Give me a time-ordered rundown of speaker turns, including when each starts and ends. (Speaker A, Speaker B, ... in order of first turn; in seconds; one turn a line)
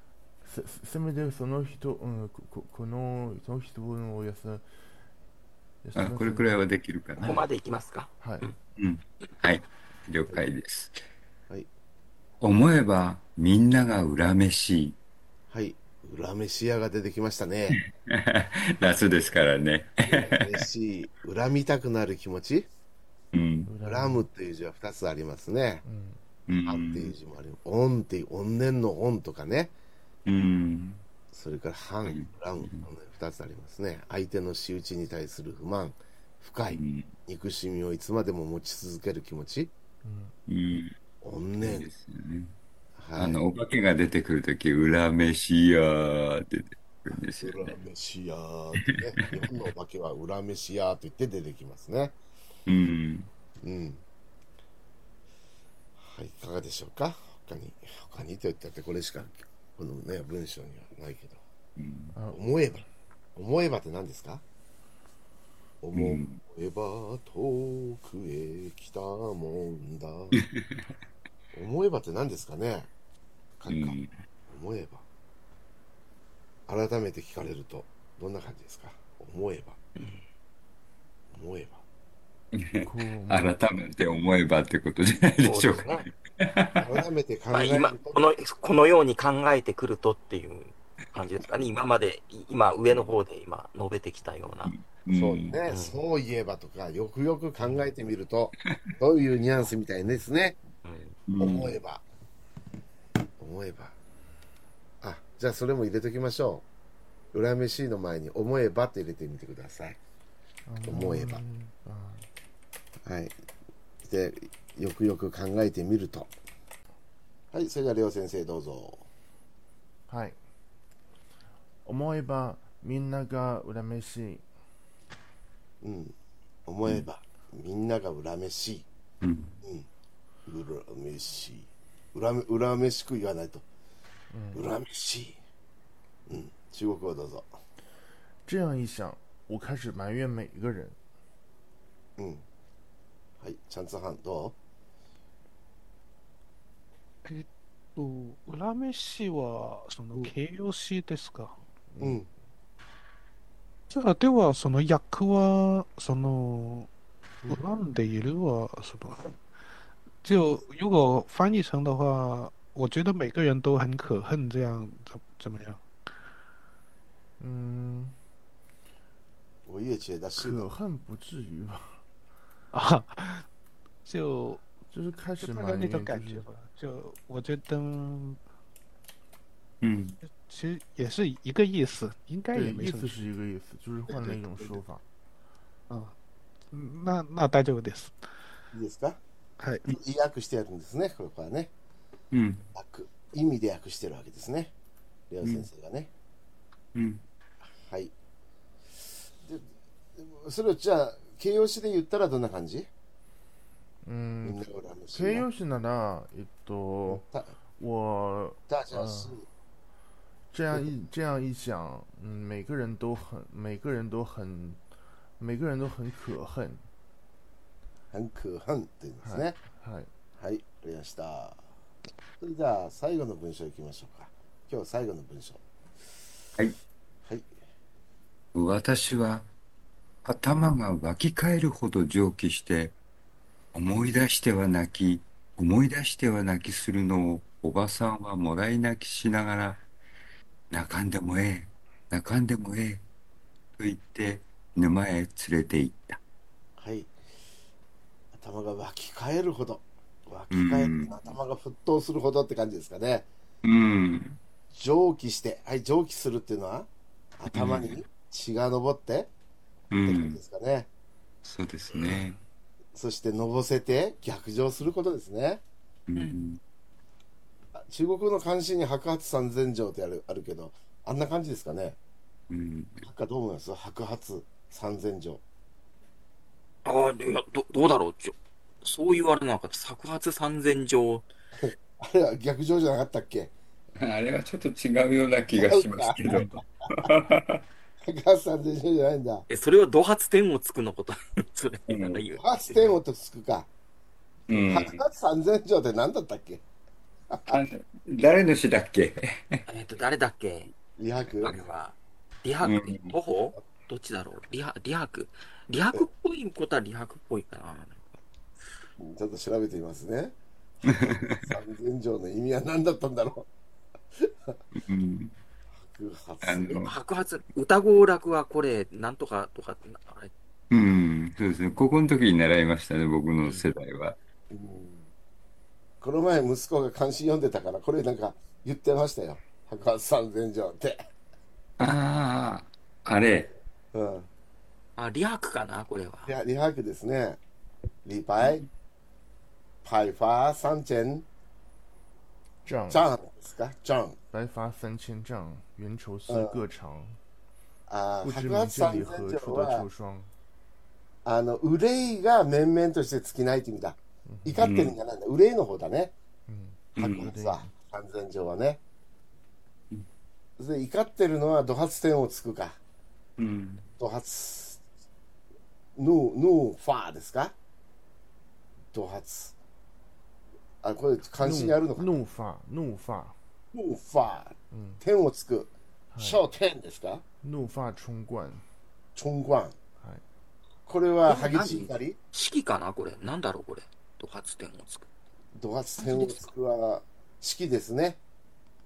Speaker A: 0.4-4.6
Speaker A: 5.8-6.6
Speaker B: 6.0-7.4
Speaker C: 7.2-8.5
Speaker A: 8.2-8.4
Speaker B: 8.8-10.9
Speaker B: 12.4-15.0
Speaker D: 15.5-17.8
Speaker B: 17.7-20.6
Speaker D: 20.0-22.7
Speaker B: 23.3-23.7
Speaker A: 23.6-24.2
Speaker D: 23.8-25.8
Speaker A: 25.9-26.2
Speaker B: 26.5-27.1
Speaker D: 26.6-29.7
Speaker B: 30.3-31.0
Speaker D: 31.3-39.7
Speaker B: 32.1-32.9
Speaker B: 36.7-37.1
Speaker A: 40.0-40.3
Speaker B: 40.5-41.0
Speaker D: 41.2-41.9
Speaker B: 41.6-42.5
Speaker D: 43.0-43.4
Speaker B: 43.2-47.7
Speaker D: 47.1-52.1
Speaker B: 48.8-49.4
Speaker B: 52.7-53.3
Speaker D: 53.6-54.0
Speaker D: 56.0-61.4
Speaker B: 61.8-62.1
Speaker A: 62.1-62.4
Speaker D: 62.3-64.4
Speaker D: 65.8-70.4
Speaker B: 65.9-66.4
Speaker B: 70.4-70.8
Speaker D: 71.5-72.9
Speaker D: 73.6-74.0
Speaker B: 73.7-74.1
Speaker D: 74.5-75.0
Speaker D: 76.7-79.8
Speaker D: 81.3-81.8
Speaker B: 82.6-86.9
Speaker A: 82.8-83.6
Speaker C: 85.4-86.1
Speaker D: 86.8-88.2
Speaker C: 87.5-94.7
Speaker B: 94.7-95.6
Speaker D: 95.1-100.6
Speaker C: 95.7-96.0
Speaker C: 100.8-101.2
Speaker B: 101.3-101.8
Speaker D: 101.4-102.0
Speaker D: 103.4-104.0
Speaker D: 105.0-106.7
Speaker D: 107.3-110.0
Speaker A: 110.7-112.3
Speaker D: 110.8-111.4
Speaker D: 113.0-113.3
Speaker D: 114.0-116.3
Speaker D: 117.5-119.1
Speaker A: 120.1-120.4
Speaker A: 121.8-124.4
Speaker D: 125.8-126.1
Speaker D: 126.7-128.9
Speaker B: 129.2-129.6
Speaker D: 129.6-129.9
Speaker D: 130.4-133.7
Speaker A: 134.3-134.6
Speaker D: 134.5-135.4
Speaker D: 136.3-137.5
Speaker A: 138.4-141.0
Speaker D: 142.2-142.4
Speaker D: 143.4-144.6
Speaker E: 147.2-151.6
Speaker A: 151.9-152.2
Speaker D: 152.0-152.3
Speaker E: 153.9-156.9
Speaker E: 157.4-159.3
Speaker E: 160.2-165.8
Speaker A: 167.4-168.2
Speaker D: 169.7-170.7
Speaker A: 170.4-172.0
Speaker E: 172.7-173.4
Speaker E: 174.1-174.6
Speaker A: 174.9-176.4
Speaker E: 175.4-178.4
Speaker B: 179.8-180.2
Speaker E: 180.2-183.2
Speaker A: 182.5-185.0
Speaker E: 184.1-184.8
Speaker E: 185.9-186.1
Speaker E: 186.7-188.1
Speaker D: 188.7-189.2
Speaker E: 189.6-190.0
Speaker D: 189.9-191.7
Speaker B: 192.3-192.6
Speaker D: 192.7-194.7
Speaker D: 195.3-196.1
Speaker B: 195.4-195.7
Speaker B: 196.9-197.2
Speaker D: 197.8-198.1
Speaker D: 199.4-202.9
Speaker A: 204.1-207.2
Speaker D: 204.4-205.4
Speaker D: 207.1-207.5
Speaker A: 207.8-209.4
Speaker D: 208.7-209.4
Speaker A: 210.5-214.8
Speaker A: 215.4-216.8
Speaker D: 218.1-219.6
Speaker A: 219.2-220.1
Speaker D: 220.4-221.6
Speaker D: 222.4-225.6
Speaker B: 228.5-229.5
Speaker B: 230.2-232.9
Speaker B: 233.7-239.8
Speaker B: 240.7-243.0
Speaker B: 243.8-246.2
Speaker D: 246.8-247.1
Speaker D: 248.3-253.3
Speaker B: 250.5-251.2
Speaker B: 253.6-254.4
Speaker D: 254.7-259.3
Speaker B: 257.5-257.9
Speaker B: 259.9-260.4
Speaker D: 260.0-260.9
Speaker B: 261.4-262.4
Speaker D: 262.9-265.6
Speaker B: 266.1-266.6
Speaker D: 267.8-272.0
Speaker B: 272.5-273.1
Speaker D: 273.0-275.4
Speaker C: 276.9-281.2
Speaker D: 281.6-283.5
Speaker B: 284.0-287.6
Speaker D: 285.5-287.1
Speaker D: 288.1-289.4
Speaker C: 289.5-293.0
Speaker B: 291.9-292.2
Speaker D: 292.4-293.7
Speaker B: 294.5-295.0
Speaker D: 294.6-296.6
Speaker D: 297.3-297.6
Speaker B: 297.5-299.6
Speaker C: 299.7-300.7
Speaker D: 301.0-301.5
Speaker C: 301.4-308.1
Speaker B: 302.6-303.1
Speaker D: 309.0-313.5
Speaker B: 310.9-311.4
Speaker D: 314.2-314.6
Speaker B: 314.8-315.4
Speaker D: 315.8-316.9
Speaker B: 316.4-316.9
Speaker C: 316.8-320.3
Speaker B: 320.7-324.1
Speaker D: 324.5-325.1
Speaker D: 326.0-331.0
Speaker B: 331.8-333.5
Speaker D: 333.9-334.3
Speaker C: 335.0-336.3
Speaker D: 336.3-337.4
Speaker D: 338.1-338.6
Speaker D: 339.8-341.3
Speaker A: 342.6-343.1
Speaker D: 342.9-344.2
Speaker A: 344.3-347.2
Speaker D: 346.3-346.6
Speaker D: 347.9-349.9
Speaker A: 348.2-350.3
Speaker D: 351.2-356.1
Speaker A: 354.3-354.6
Speaker B: 354.6-354.9
Speaker A: 356.5-357.7
Speaker B: 357.0-357.3
Speaker D: 357.0-358.8
Speaker D: 360.6-362.8
Speaker B: 363.4-363.9
Speaker D: 364.0-364.8
Speaker D: 365.9-367.6
Speaker D: 368.9-369.6
Speaker D: 370.8-372.1
Speaker A: 371.4-373.4
Speaker D: 373.7-377.2
Speaker A: 374.7-375.0
Speaker A: 376.1-376.4
Speaker A: 377.4-378.6
Speaker D: 379.1-379.8
Speaker D: 380.9-382.2
Speaker C: 381.2-385.1
Speaker D: 385.6-388.2
Speaker C: 386.0-386.5